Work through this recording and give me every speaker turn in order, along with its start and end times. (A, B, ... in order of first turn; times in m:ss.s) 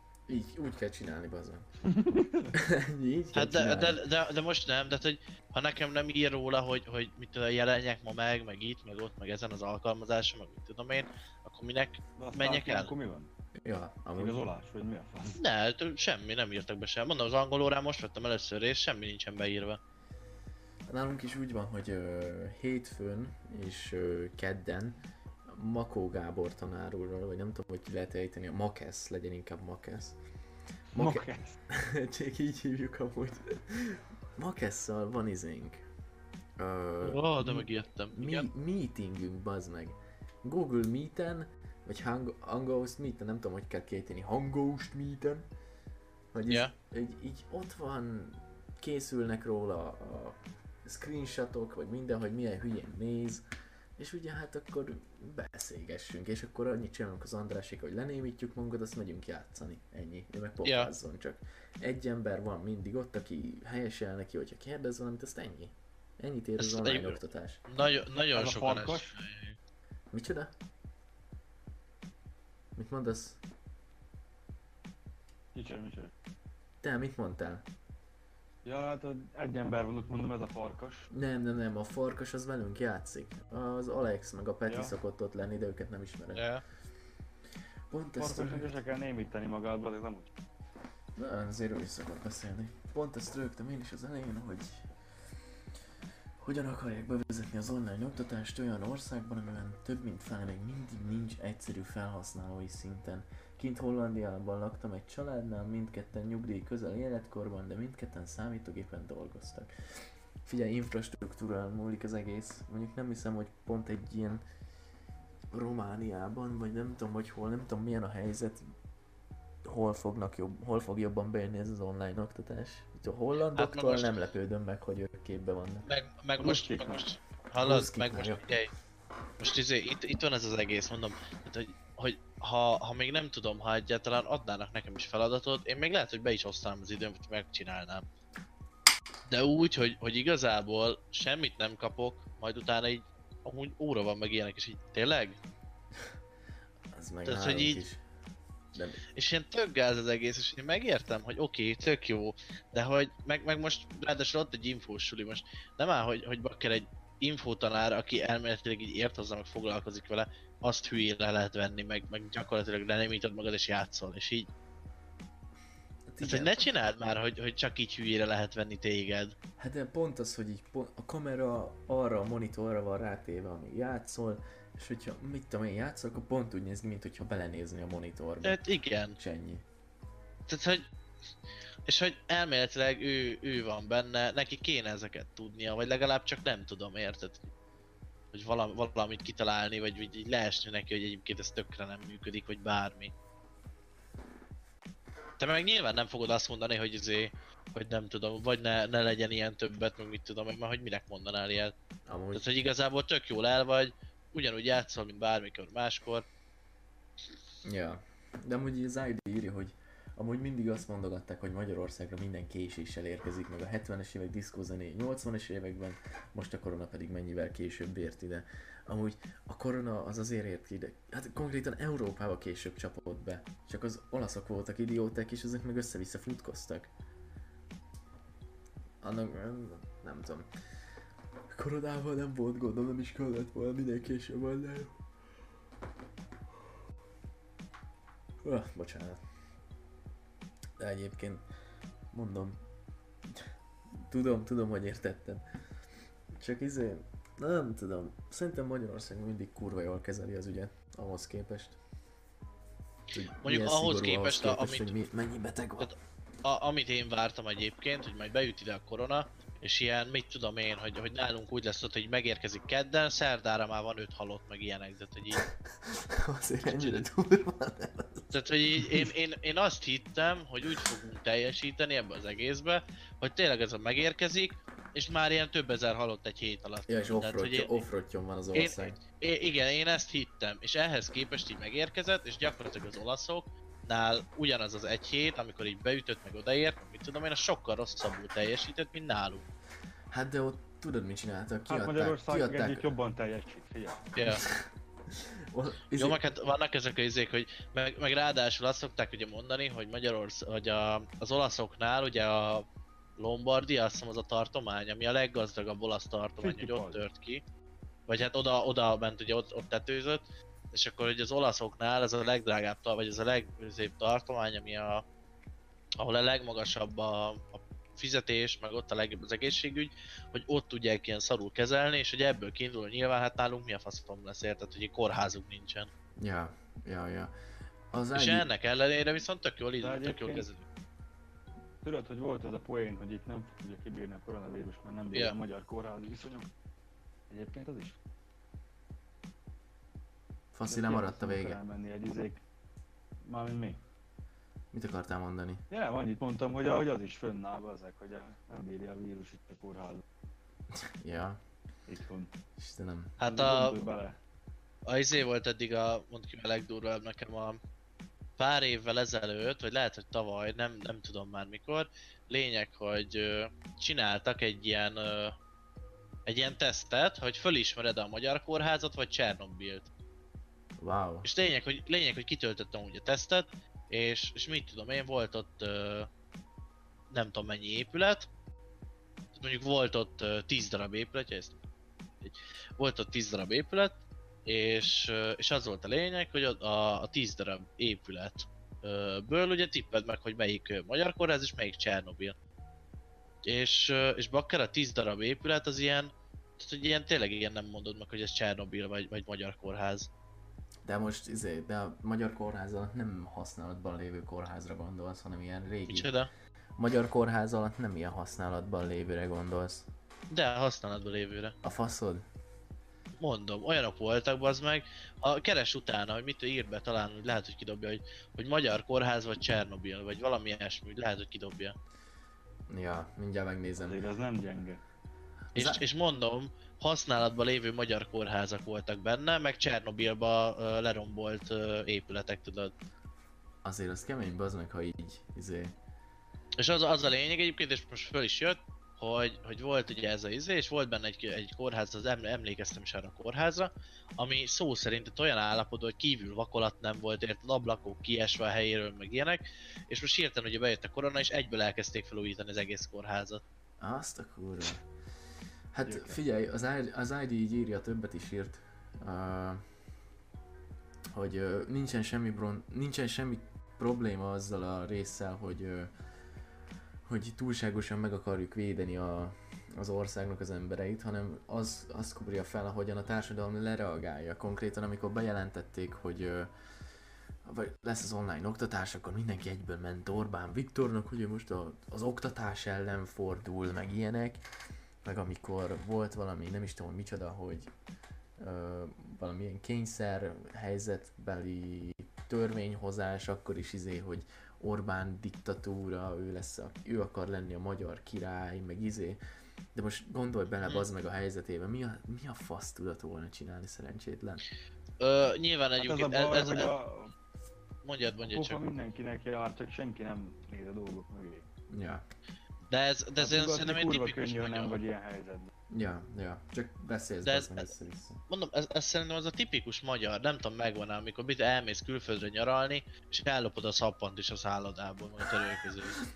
0:00.3-0:01.7 A
0:01.8-0:02.5 B
0:02.5-0:04.0 A
0:03.3-0:12.9 C
0:12.2-0:13.3 B
0:13.6-0:14.4 A
0:14.1-0:15.4 B
0:15.4-0:19.8 C
0:20.9-0:30.2 A
0:30.9-0:31.6 B
0:31.0-0:35.8 A
0:36.6-0:45.5 A
0:37.0-0:38.4 C
0:46.3-0:53.4 A
0:54.0-1:07.6 A
1:00.6-1:00.9 C
1:06.6-1:09.6 C
1:08.3-1:09.2 B
1:10.1-1:10.5 A
1:12.8-1:13.4 A
1:15.5-1:16.1 B
1:16.8-1:17.6 A
1:18.6-1:21.1 B
1:21.1-1:26.4 A
1:24.7-1:24.9 B
1:26.3-1:26.6 C
1:27.9-1:28.7 A
1:28.2-1:30.3 B
1:31.2-1:34.8 A
1:36.4-1:54.4 A
1:55.5-1:58.7 A
1:59.6-2:05.9 A
2:03.6-2:04.1 C
2:05.9-2:08.7 C
2:06.4-2:07.0 B
2:07.6-2:08.4 A
2:09.4-2:18.0 C
2:19.3-2:25.4 C
2:26.9-2:28.0 A
2:27.2-2:27.8 C
2:28.7-2:29.0 A
2:29.1-2:44.5 C
2:46.1-2:46.7 A
2:46.2-2:49.4 C
2:49.6-2:58.6 A
2:58.4-2:59.2 C
2:59.2-2:59.6 A
3:00.5-3:00.9 C
3:01.9-3:07.4 C
3:08.3-3:13.1 C
3:15.4-3:21.7 C
3:22.1-3:22.4 A
3:22.3-3:26.2 C
3:27.6-3:46.9 A
3:49.0-3:50.5 A
3:51.5-3:55.0 A
3:58.4-3:59.2 A
4:00.8-4:01.4 A
4:02.1-4:02.6 A
4:04.0-4:05.4 A
4:06.3-4:11.8 A
4:13.1-4:15.9 A
4:13.4-4:14.9 C
4:15.8-4:25.5 C
4:25.5-4:29.1 A
4:28.3-4:37.8 C
4:36.9-4:39.0 A
4:38.6-4:49.5 C
4:50.1-4:52.9 A
4:51.7-4:54.1 B
4:54.2-4:54.4 C
4:54.2-4:56.2 A
4:56.0-5:02.7 C
5:03.2-5:07.4 C
5:06.4-5:07.0 B
5:08.1-5:15.0 C
5:16.0-5:25.9 C
5:26.2-5:27.3 A
5:27.9-5:28.4 A
5:28.1-5:30.6 C
5:29.8-5:30.4 B
5:31.8-5:36.5 B
5:37.3-5:38.0 B
5:40.5-5:41.6 A
5:40.7-5:42.4 B
5:43.2-5:43.8 B
5:44.7-5:45.6 A
5:45.7-5:50.0 B
5:50.7-5:51.4 A
5:51.9-5:52.3 B
5:52.6-5:53.2 A
5:53.2-5:53.8 C
5:53.2-5:54.2 B
5:54.9-5:57.6 C
5:58.4-6:05.4 C
6:06.3-6:09.9 C
6:10.8-6:11.3 A
6:11.2-6:16.1 C
6:17.1-6:18.3 C
6:19.4-6:21.6 C
6:22.2-6:32.3 C
6:33.4-6:40.1 C
6:40.9-6:46.1 A
6:45.9-6:46.3 C
6:46.8-6:49.9 A
6:50.3-6:51.6 C
6:51.6-6:52.2 A
6:53.2-7:01.7 C
7:02.7-7:04.0 A
7:03.8-7:04.8 B
7:05.5-7:05.8 A
7:05.6-7:12.7 C
7:13.6-7:15.7 A
7:16.6-7:33.4 C
7:33.8-7:34.8 A
7:35.7-7:39.6 A
7:35.8-7:36.2 B
7:41.1-7:45.9 A
7:47.1-7:56.5 A
7:57.4-8:04.4 A
8:05.0-8:07.7 A
8:08.4-8:19.2 A
8:19.7-8:24.4 A
8:25.0-8:26.7 C
8:25.8-8:27.1 B
8:27.8-8:28.6 C
8:28.2-8:31.4 B
8:31.7-8:32.0 A
8:32.7-8:34.8 C
8:33.2-8:35.5 B
8:35.7-8:38.2 A
8:37.3-8:37.7 C
8:38.3-8:46.0 C